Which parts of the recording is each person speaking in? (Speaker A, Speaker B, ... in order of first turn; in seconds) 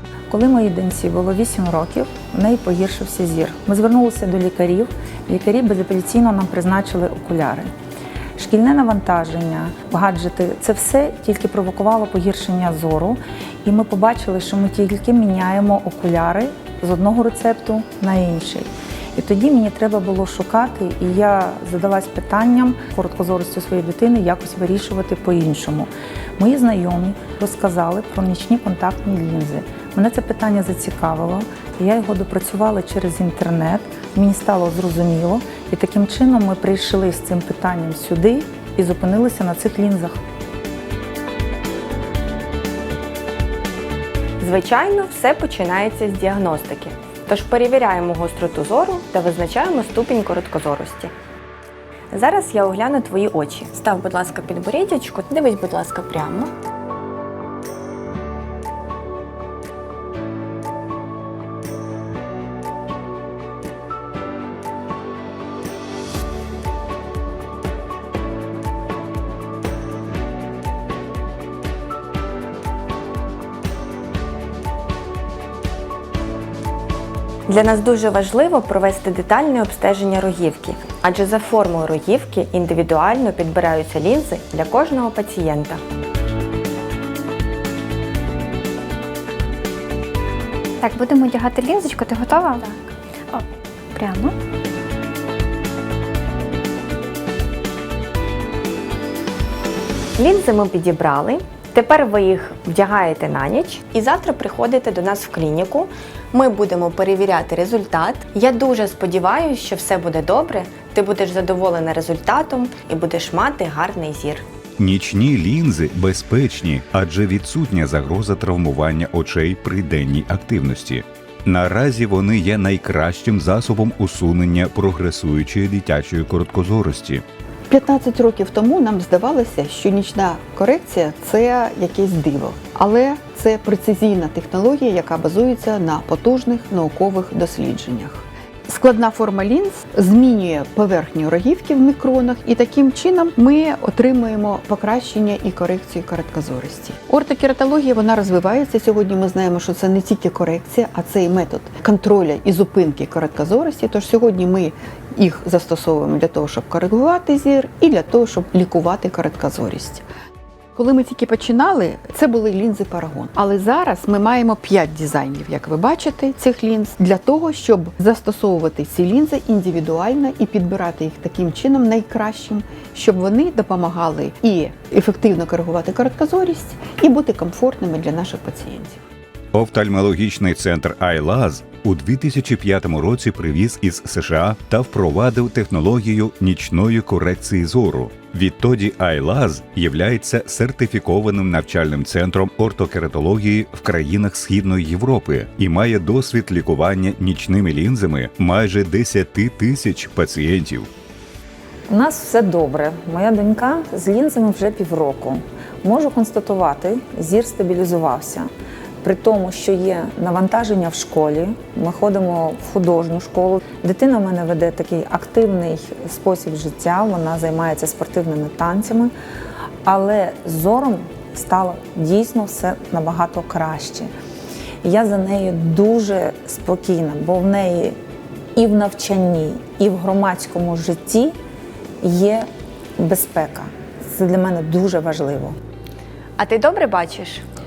Speaker A: 0.3-7.7, 8.4-40.2, 201.9-208.5, 209.0-219.1, 219.8-224.1, 224.8-228.0, 228.6-231.3, 232.0-232.5, 233.0-235.6
Speaker B: 44.4-51.1, 52.1-56.5, 77.5-85.8, 100.2-114.5, 236.4-237.4
Speaker C: 90.8-92.8, 93.3-94.3
Speaker D: 114.8-127.2, 179.5-200.9
Speaker E: 127.7-160.1, 160.8-179.0